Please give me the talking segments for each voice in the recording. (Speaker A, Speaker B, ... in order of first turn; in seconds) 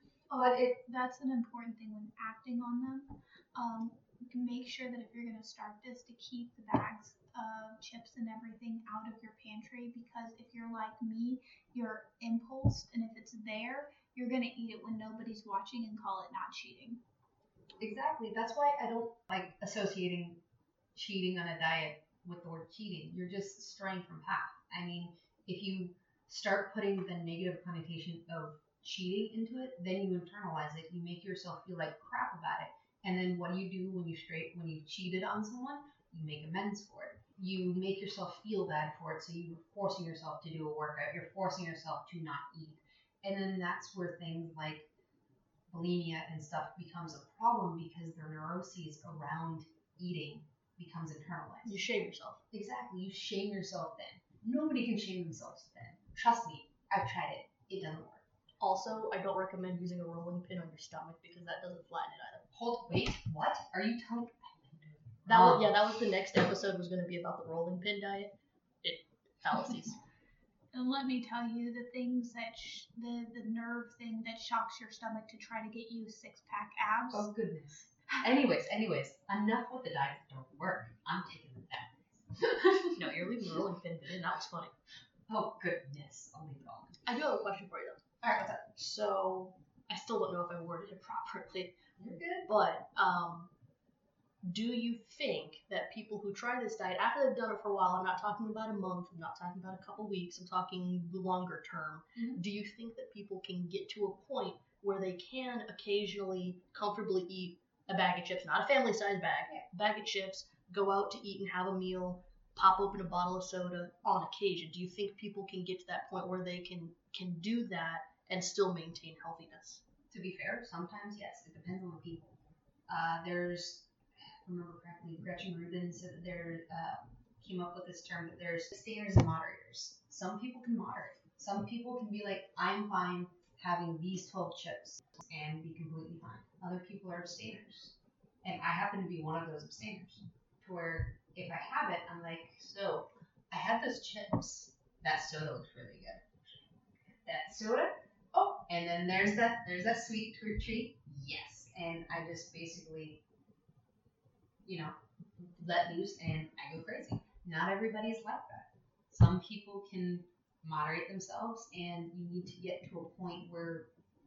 Speaker A: 0.3-17.0, 70.7-77.3
Speaker B: 0.4-0.8, 17.8-20.4, 20.9-44.9, 45.7-51.8, 52.5-58.2, 62.5-65.7, 77.1-83.5, 85.3-87.0, 88.2-88.7, 92.0-92.5, 102.2-102.4, 120.1-153.2, 154.7-163.9
Speaker C: 51.7-52.4, 58.6-62.4, 65.3-68.3, 68.8-70.0, 83.0-84.7, 87.0-88.0, 88.8-93.5, 94.4-119.8